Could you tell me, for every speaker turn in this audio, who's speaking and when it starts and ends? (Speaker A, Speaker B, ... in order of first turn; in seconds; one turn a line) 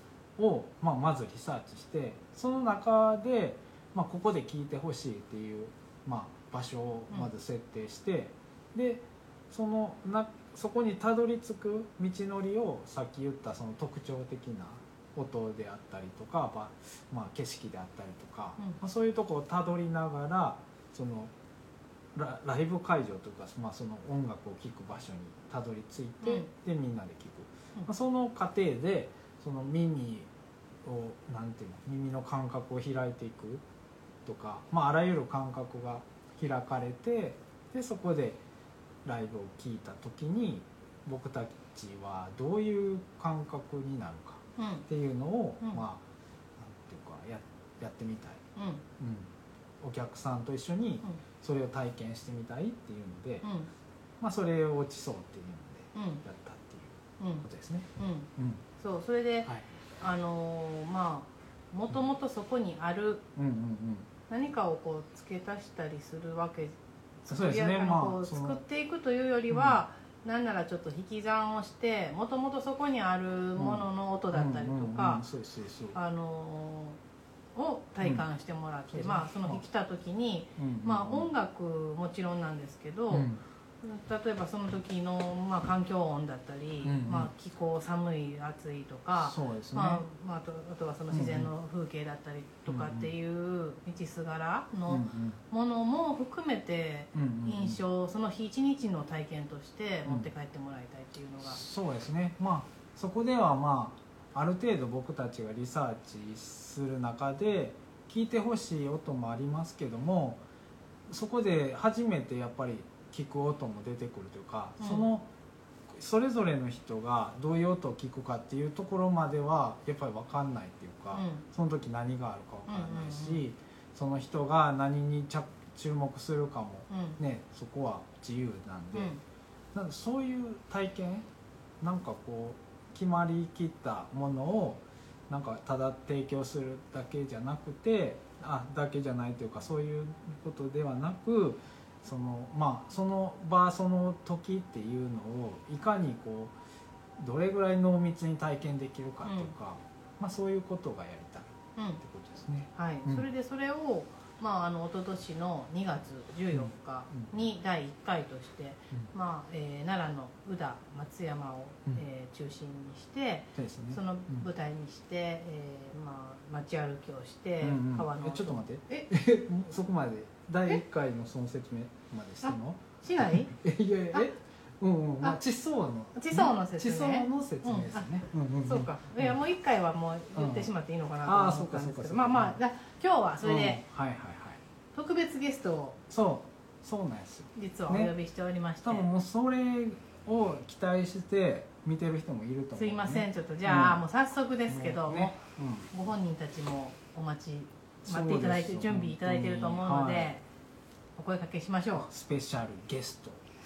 Speaker A: 0.4-21.3
Speaker A: 22.1-30.3
Speaker B: 26.2-26.5
Speaker A: 30.8-33.6
Speaker A: 34.2-38.4
Speaker A: 39.0-46.0
Speaker B: 44.6-44.9
Speaker A: 46.6-48.4
Speaker B: 48.6-48.8
Speaker A: 49.0-53.5
Speaker B: 53.4-53.7
Speaker A: 54.2-58.6
Speaker B: 56.0-56.2
Speaker B: 57.2-57.5
Speaker B: 58.0-63.2
Speaker A: 63.4-64.1
Speaker B: 64.3-75.3
Speaker A: 67.3-68.6
Speaker A: 69.5-69.8
Speaker A: 73.6-76.0
Speaker B: 75.9-77.0
Speaker B: 77.5-83.3
Speaker A: 78.9-79.6
Speaker A: 80.6-81.3
Speaker A: 83.1-83.4
Speaker B: 83.8-101.6
Speaker A: 86.8-87.3
Speaker A: 89.2-90.0
Speaker A: 91.1-91.5
Speaker A: 92.7-93.1
Speaker A: 94.9-95.4
Speaker A: 97.1-97.8
Speaker A: 101.4-110.5
Speaker A: 111.1-115.3
Speaker B: 114.8-115.1
Speaker A: 115.9-129.2
Speaker B: 121.1-121.4
Speaker B: 122.7-123.5
Speaker B: 126.9-127.2
Speaker B: 128.9-129.2
Speaker A: 129.7-131.3
Speaker A: 131.8-146.5
Speaker A: 147.2-153.3
Speaker B: 149.2-149.5
Speaker B: 152.8-169.1
Speaker A: 156.5-157.3
Speaker A: 163.6-164.5
Speaker A: 167.6-179.4
Speaker B: 172.4-173.5
Speaker B: 176.2-178.1
Speaker B: 178.6-183.8
Speaker A: 180.3-180.7
Speaker A: 181.2-182.6
Speaker A: 183.4-184.6
Speaker B: 184.9-186.0
Speaker A: 186.1-188.1
Speaker B: 187.6-189.1
Speaker A: 188.8-194.0
Speaker B: 192.8-195.4
Speaker A: 194.7-195.9
Speaker B: 195.9-200.4
Speaker A: 198.1-200.3
Speaker B: 201.2-202.1
Speaker A: 201.9-203.4